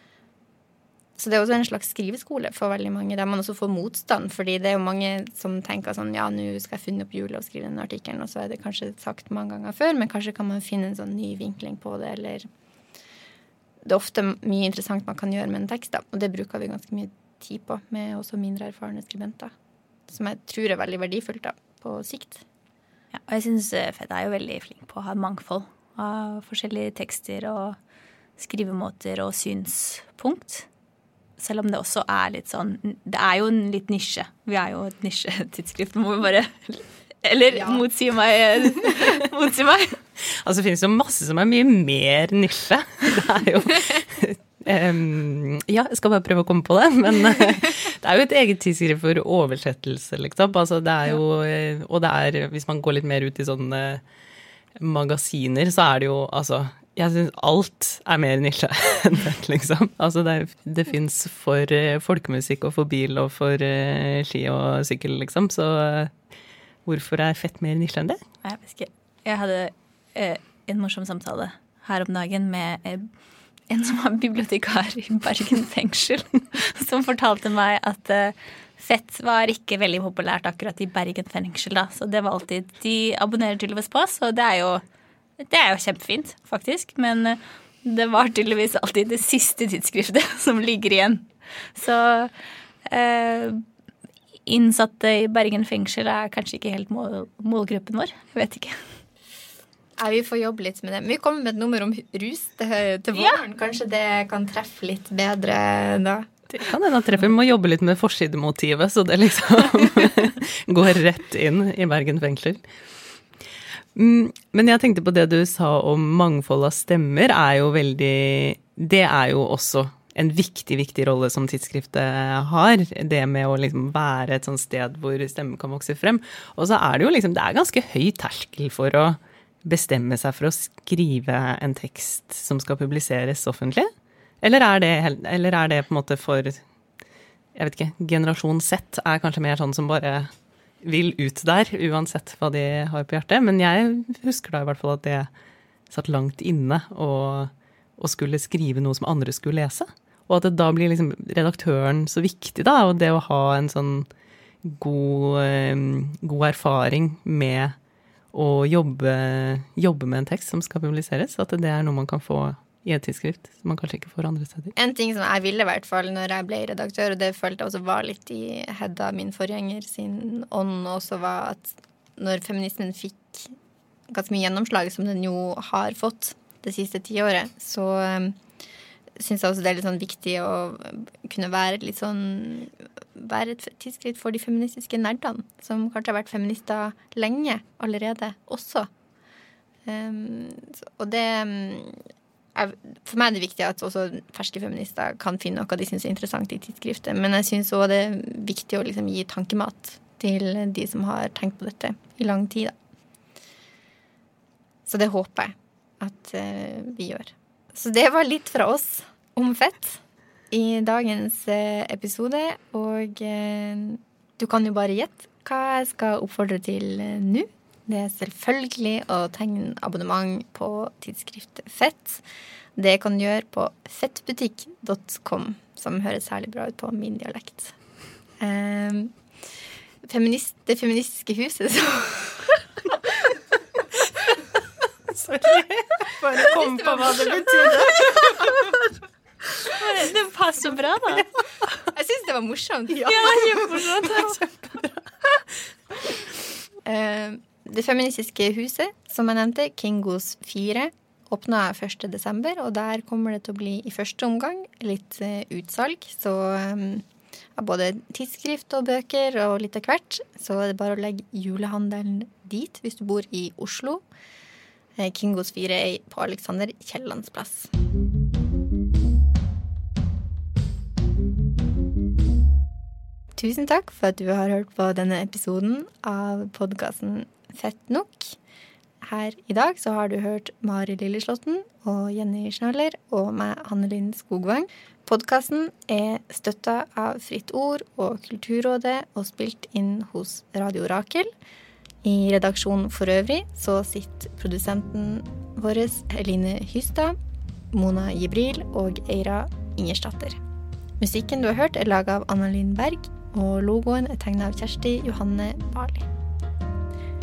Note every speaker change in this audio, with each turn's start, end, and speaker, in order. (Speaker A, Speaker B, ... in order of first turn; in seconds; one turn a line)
Speaker A: 1.2-12.5
Speaker A: 13.8-19.5
Speaker A: 20.1-22.4
Speaker B: 23.1-27.8
Speaker B: 28.4-30.6
Speaker B: 31.4-40.0
Speaker C: 40.2-54.0
Speaker C: 54.8-66.1
Speaker C: 66.8-68.2
Speaker B: 68.4-73.1
Speaker B: 73.7-84.8
Speaker B: 85.4-92.3
Speaker B: 92.9-93.6
Speaker B: 94.5-98.8
Speaker A: 100.0-106.3
Speaker B: 103.2-103.4
Speaker C: 106.5-112.6
Speaker C: 113.9-133.9
Speaker C: 134.4-136.6
Speaker C: 137.5-140.3
Speaker C: 140.8-145.3
Speaker C: 145.9-154.1
Speaker C: 154.6-157.8
Speaker C: 158.3-164.7
Speaker A: 164.7-173.5
Speaker A: 174.1-178.4
Speaker A: 179.2-188.9
Speaker A: 189.8-192.0
Speaker A: 192.5-202.7
Speaker A: 204.8-222.2
Speaker A: 222.8-227.7
Speaker A: 228.4-229.1
Speaker A: 230.0-232.9
Speaker C: 235.1-238.7
Speaker A: 236.4-238.3
Speaker B: 239.7-241.3
Speaker A: 241.9-244.0
Speaker B: 242.9-244.4
Speaker C: 244.6-244.9
Speaker A: 246.8-257.0
Speaker A: 257.6-264.0
Speaker A: 265.0-267.7
Speaker A: 273.4-278.4
Speaker A: 279.0-291.3
Speaker A: 292.0-297.1
Speaker A: 297.7-300.4
Speaker A: 301.0-306.1